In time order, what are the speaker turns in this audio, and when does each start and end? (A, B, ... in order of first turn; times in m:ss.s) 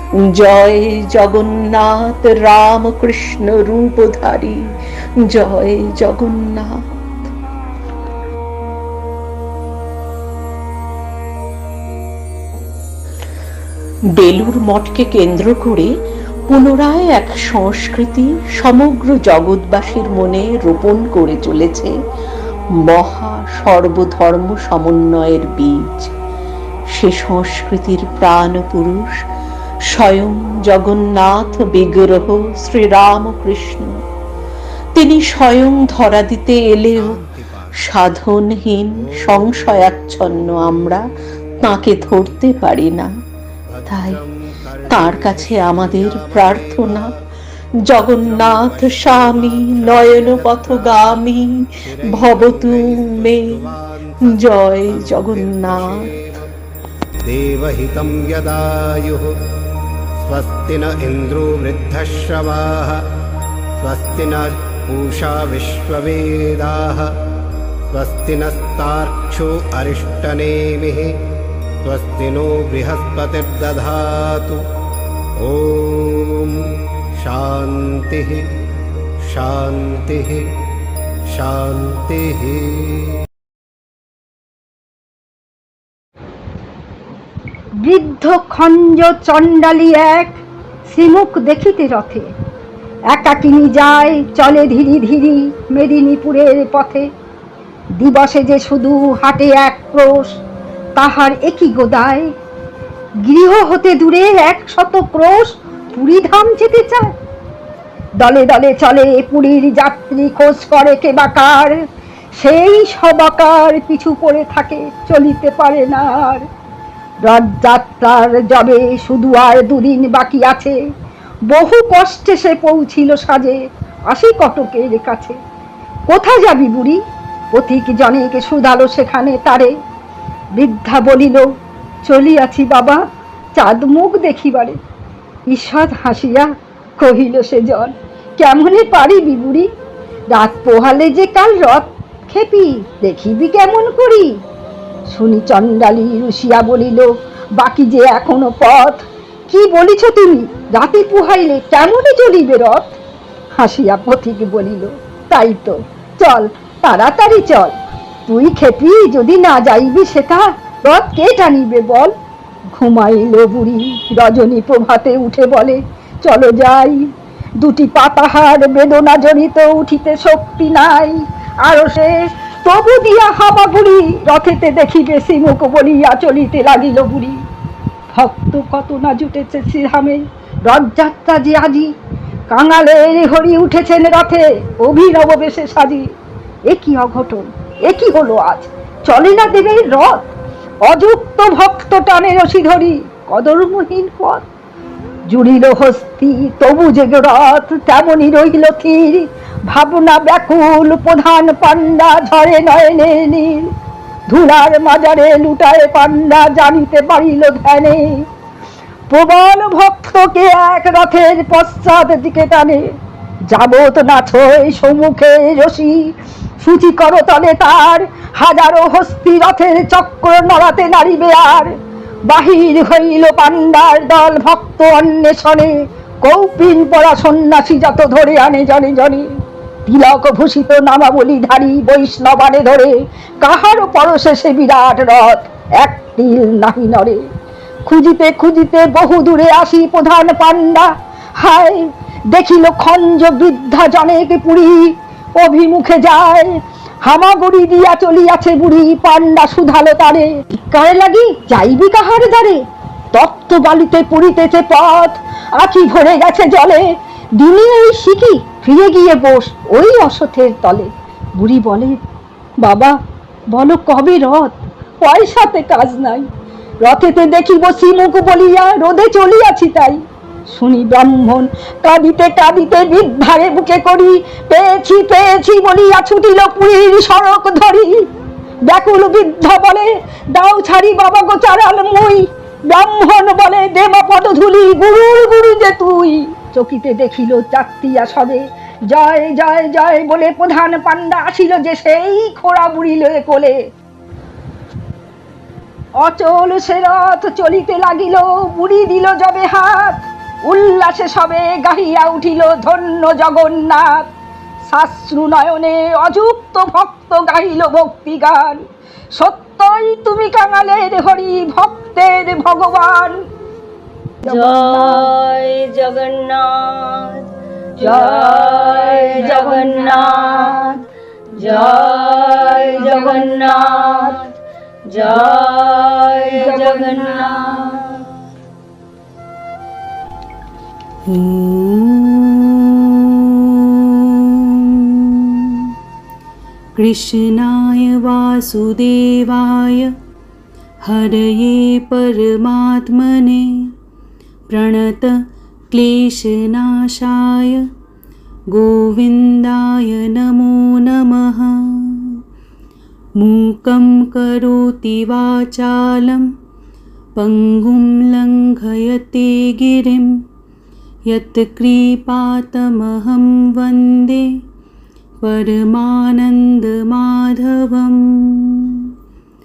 0:00.2-0:04.6 A
0:05.2-0:07.3 A
0:14.2-0:15.9 A
0:16.5-0:21.9 A
0:22.9-0:26.1 A
0:26.9-0:29.2 A
0:29.9-0:34.0 A
0:35.0-0:37.2 A
0:37.0-0:37.9 B
0:37.8-0:41.0 A
0:39.0-0:39.8 B
0:41.6-0:43.1 A
0:43.7-0:47.2 B
0:43.9-0:44.2 A
0:44.9-0:47.1 A
0:47.8-0:51.5 A
0:48.0-0:51.2 B
0:51.9-0:56.5 B
0:52.0-0:56.2 A
0:57.2-0:59.4 B
1:00.2-1:03.1 B
1:03.8-1:07.2 B
1:07.9-1:11.2 B
1:11.8-1:14.6 B
1:15.4-1:16.6 B
1:17.2-1:18.5 B
1:19.3-1:20.5 B
1:21.3-1:23.2 B
1:27.8-1:32.3 C
1:33.1-1:37.1 C
1:38.0-1:40.4 C
1:41.0-1:42.3 C
1:43.2-1:47.1 C
1:48.2-1:51.8 C
1:52.4-1:56.5 C
1:57.2-2:00.8 C
2:01.5-2:03.6 C
2:04.1-2:05.4 C
2:06.1-2:07.0 C
2:07.5-2:09.7 C
2:10.6-2:11.5 C
2:12.1-2:13.0 C
2:13.6-2:14.8 C
2:15.5-2:19.7 C
2:20.3-2:24.4 C
2:25.1-2:33.0 C
2:33.6-2:42.1 C
2:42.7-2:47.1 C
2:47.6-2:57.4 C
2:58.1-3:01.9 C
3:02.5-3:06.1 C
3:06.7-3:10.3 C
3:10.9-3:14.4 C
3:15.3-3:23.7 C
3:24.3-3:28.3 C
3:29.1-3:32.9 C
3:33.5-3:41.8 C
3:42.3-3:49.3 C
3:49.9-3:57.2 C
3:57.9-4:12.6 C
4:13.1-4:22.0 C
4:22.6-4:23.0 C
4:23.5-4:26.3 C
4:26.8-4:38.0 C
4:38.7-4:53.6 C
4:56.0-5:04.1 C
5:04.6-5:08.6 C
5:09.2-5:13.2 C
5:14.2-5:15.1 C
5:14.2-5:17.2 D
5:17.8-5:20.7 C
5:17.8-5:20.8 D
5:21.4-5:24.3 D
5:21.5-5:24.2 C
5:24.9-5:28.0 D
5:26.3-5:27.8 C
5:31.1-5:35.7 E
5:36.8-5:39.9 E
5:40.8-5:43.7 E
5:44.5-5:45.2 E
5:45.7-5:47.7 E
5:48.5-5:52.2 E
5:53.2-5:56.3 E
5:57.2-6:00.2 E
6:01.1-6:04.3 E
6:05.2-6:08.9 E